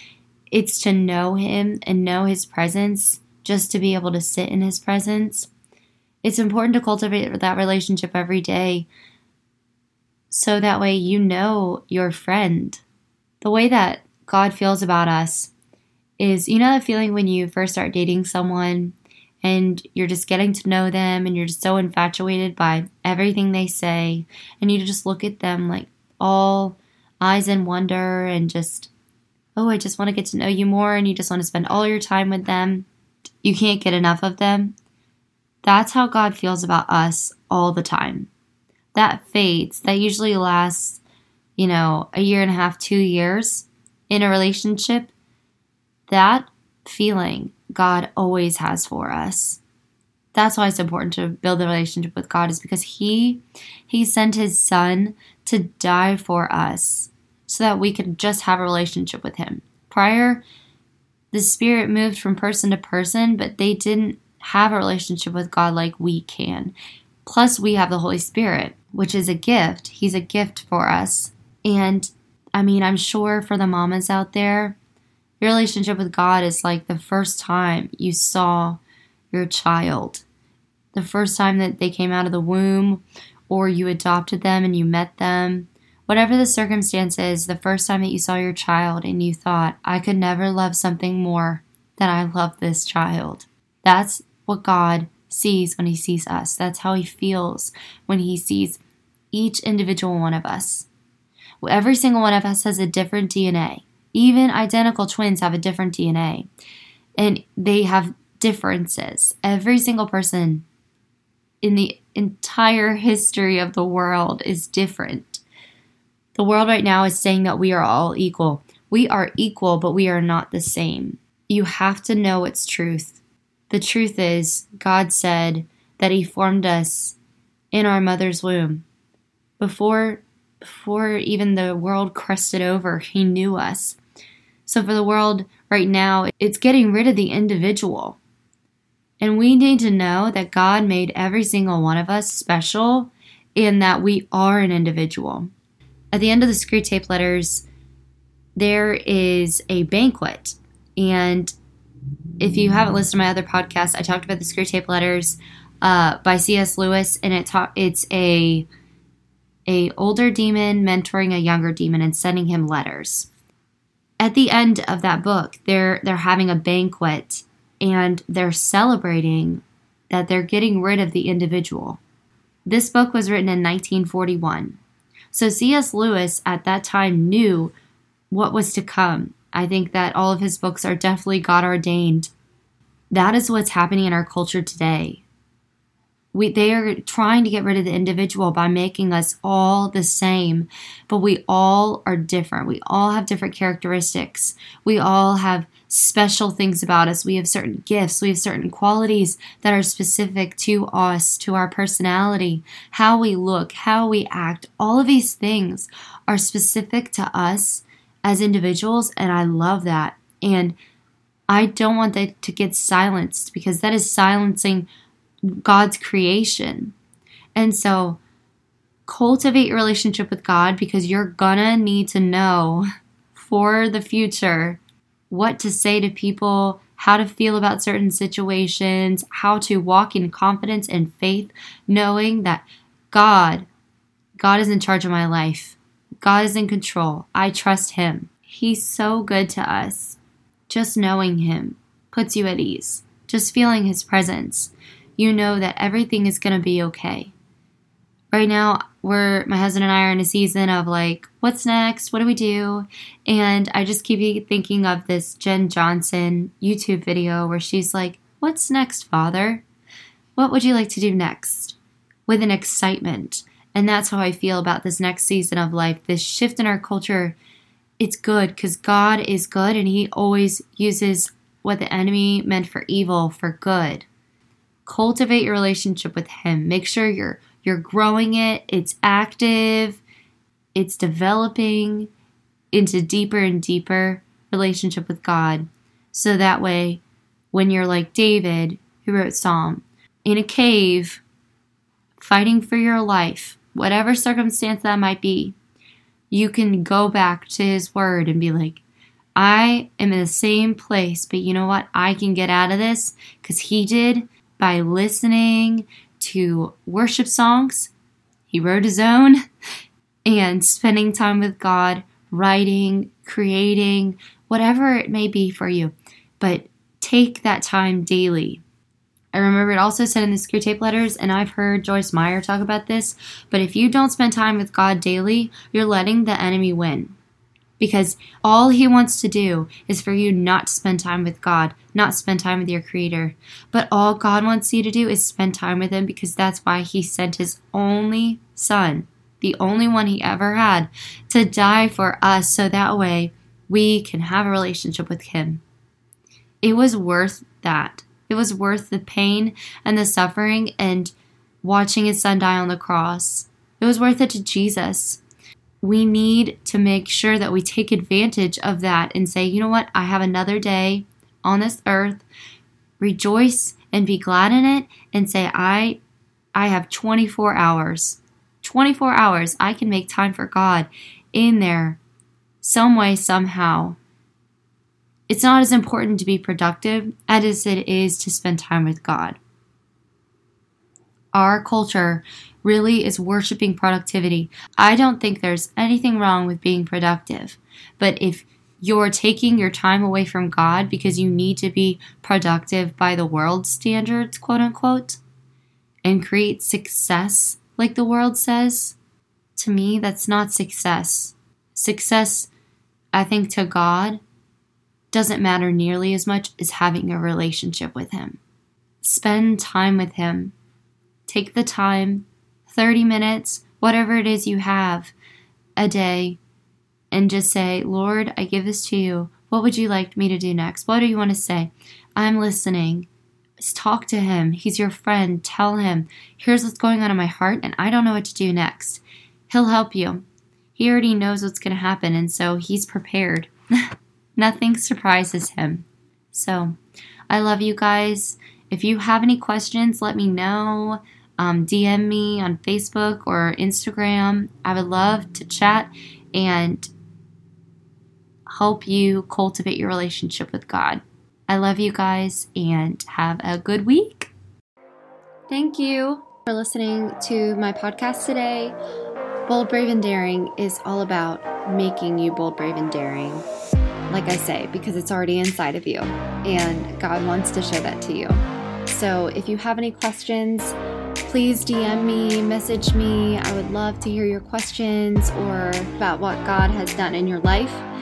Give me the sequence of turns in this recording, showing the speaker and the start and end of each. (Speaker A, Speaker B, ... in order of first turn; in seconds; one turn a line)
Speaker A: 0.5-5.5
Speaker A: 6.2-8.9
Speaker A: 10.3-12.8
Speaker A: 13.4-15.5
Speaker A: 16.2-28.9
Speaker A: 29.6-32.9
Speaker A: 33.4-34.7
Speaker A: 35.6-38.3
Speaker A: 38.9-41.0
Speaker A: 41.6-45.1
Speaker A: 46.1-49.6
Speaker A: 50.3-60.4
Speaker A: 61.3-74.8
Speaker A: 75.4-78.8
Speaker A: 79.3-80.2
Speaker A: 80.9-98.8
Speaker A: 99.3-100.9
Speaker A: 101.6-106.5
Speaker A: 107.2-110.7
Speaker A: 111.6-115.4
Speaker A: 116.3-123.2
Speaker A: 123.7-127.2
Speaker A: 127.7-128.8
Speaker A: 129.6-134.0
Speaker A: 134.7-138.2
Speaker A: 139.2-145.5
Speaker A: 146.1-147.7
Speaker A: 148.6-151.5
Speaker A: 152.4-158.7
Speaker A: 159.7-163.3
Speaker A: 164.2-172.0
Speaker A: 172.7-174.8
Speaker A: 175.3-177.7
Speaker A: 178.3-182.3
Speaker A: 183.1-185.2
Speaker A: 186.3-210.8
Speaker A: 211.5-214.9
Speaker A: 215.4-216.9
Speaker A: 217.6-218.2
Speaker A: 219.1-233.7
Speaker A: 234.4-240.2
Speaker A: 240.7-247.3
Speaker A: 248.3-259.6
Speaker A: 260.4-267.4
Speaker A: 268.0-274.1
Speaker A: 274.9-280.0
Speaker A: 280.8-282.1
Speaker A: 282.7-291.2
Speaker A: 292.2-295.6
Speaker A: 296.3-298.8
Speaker A: 299.4-307.9
Speaker A: 308.5-309.4
Speaker A: 310.2-318.6
Speaker A: 319.3-327.1
Speaker A: 327.8-345.6
Speaker A: 346.6-355.2
Speaker A: 355.8-362.2
Speaker A: 363.0-366.0
Speaker A: 366.6-372.0
Speaker A: 372.6-374.0
Speaker A: 375.3-379.4
Speaker A: 381.3-395.2
Speaker A: 396.0-399.0
Speaker A: 399.6-402.5
Speaker A: 403.1-404.2
Speaker A: 405.1-408.4
Speaker A: 409.0-410.6
Speaker A: 411.3-415.1
Speaker A: 415.8-416.4
Speaker A: 417.1-423.1
Speaker A: 423.6-430.2
Speaker A: 430.8-433.5
Speaker A: 434.4-436.8
Speaker A: 437.3-446.9
Speaker A: 448.5-454.3
Speaker A: 455.5-458.8
Speaker A: 459.5-463.5
Speaker A: 464.1-470.8
Speaker A: 471.3-477.9